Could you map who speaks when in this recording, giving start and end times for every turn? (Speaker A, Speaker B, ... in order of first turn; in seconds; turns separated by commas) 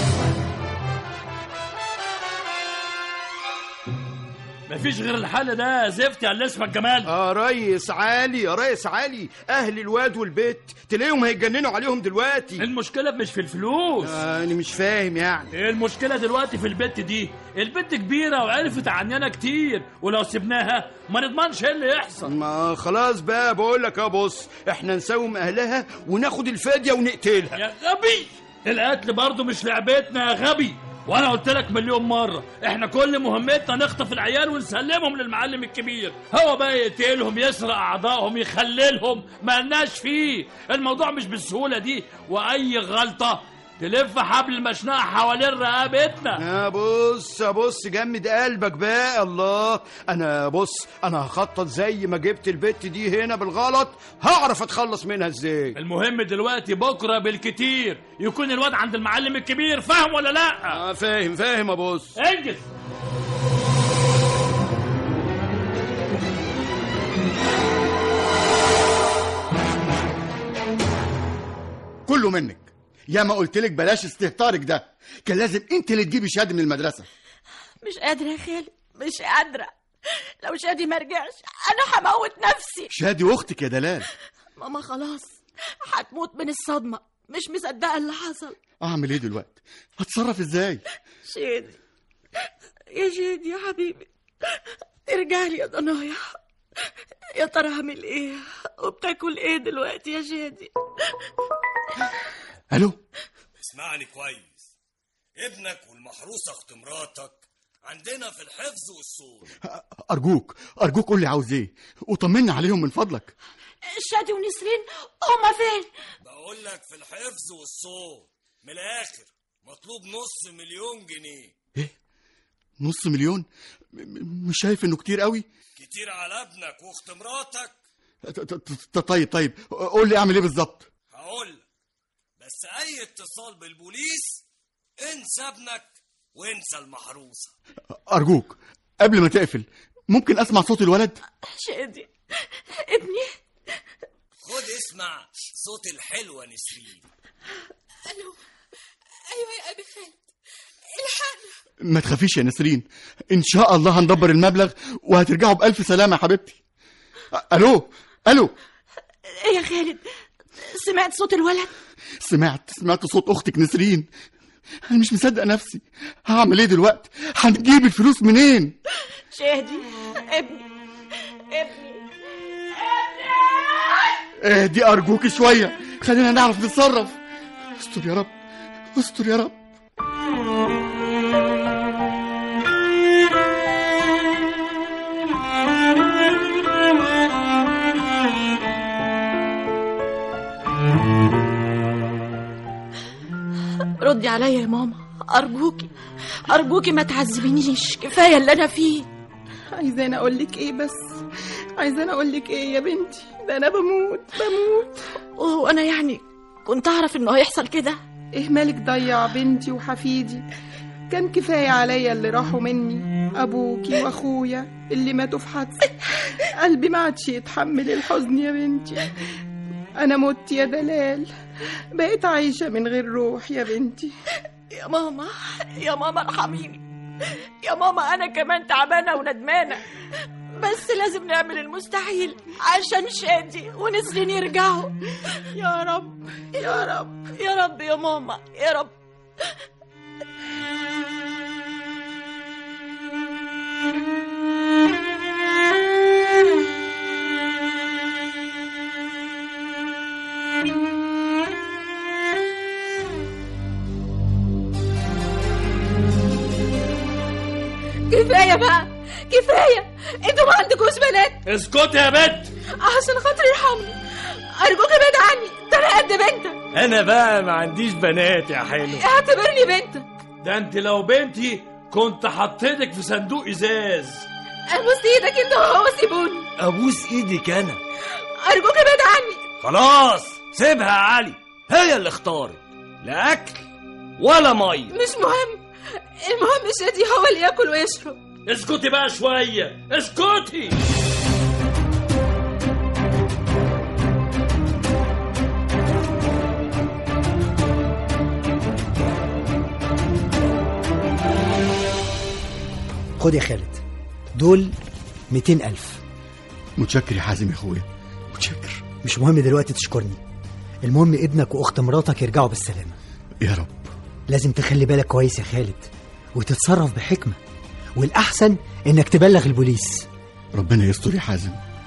Speaker A: 4.7-7.1, Speaker B: 7.1-12.7, Speaker A: 12.6-14.2, Speaker B: 14.0-15.5, Speaker A: 15.5-22.3, Speaker B: 22.2-27.6, Speaker A: 27.6-46.4, Speaker B: 46.4-55.8, Speaker A: 55.8-60.8, Speaker B: 60.7-62.1, Speaker A: 62.2-62.7, Speaker C: 72.1-77.1, Speaker D: 77.8-79.7, Speaker D: 80.4-82.9, Speaker C: 82.9-84.1, Speaker D: 84.6-85.4, Speaker D: 85.9-88.6, Speaker C: 88.8-90.8, Speaker D: 91.3-91.8, Speaker D: 92.9-94.1, Speaker D: 95.1-96.3, Speaker D: 97.4-100.7, Speaker C: 102.7-103.0, Speaker E: 103.6-104.7, Speaker E: 105.4-109.5, Speaker C: 109.6-113.3, Speaker D: 113.9-115.9, Speaker E: 116.2-121.5, Speaker C: 122.8-125.5, Speaker E: 125.8-127.8, Speaker C: 128.2-130.9, Speaker E: 131.1-131.6, Speaker E: 132.4-134.4, Speaker E: 135.0-137.5, Speaker C: 138.1-141.2, Speaker D: 141.4-142.1, Speaker D: 142.7-143.3, Speaker E: 144.4-147.1, Speaker F: 148.1-148.4, Speaker F: 149.3-150.2, Speaker F: 150.9-151.5, Speaker C: 151.8-156.6, Speaker C: 157.3-158.5, Speaker D: 159.3-160.0, Speaker D: 160.6-161.7, Speaker C: 162.2-164.1, Speaker C: 164.9-168.7, Speaker D: 169.3-170.7, Speaker D: 171.5-172.1, Speaker D: 172.7-174.2, Speaker C: 174.4-177.2, Speaker C: 177.8-178.3, Speaker C: 179.0-179.6, Speaker D: 194.0-195.9, Speaker D: 196.5-199.1, Speaker G: 199.8-201.2, Speaker G: 201.8-205.0, Speaker D: 205.4-208.0, Speaker G: 208.4-210.4, Speaker G: 211.1-215.9, Speaker G: 216.6-219.1, Speaker G: 220.0-221.3, Speaker G: 222.0-224.1, Speaker D: 224.7-226.8, Speaker D: 227.6-229.8, Speaker D: 230.6-234.9, Speaker D: 235.5-238.9, Speaker F: 258.1-261.4, Speaker A: 261.5-262.5, Speaker F: 262.8-264.0, Speaker F: 264.6-266.6, Speaker E: 266.7-269.1, Speaker F: 269.0-270.1, Speaker A: 270.4-274.3, Speaker F: 274.7-276.5, Speaker E: 276.6-277.8, Speaker F: 278.4-279.4, Speaker E: 279.6-283.6, Speaker E: 284.2-284.9, Speaker F: 284.9-285.6, Speaker F: 286.2-288.2, Speaker A: 288.5-290.8, Speaker H: 303.2-303.8, Speaker H: 304.4-304.7, Speaker H: 305.3-306.0, Speaker C: 306.8-308.9, Speaker H: 309.0-310.2, Speaker H: 310.8-313.0, Speaker C: 313.4-313.9, Speaker H: 314.3-317.4, Speaker H: 318.0-320.1, Speaker C: 320.6-321.6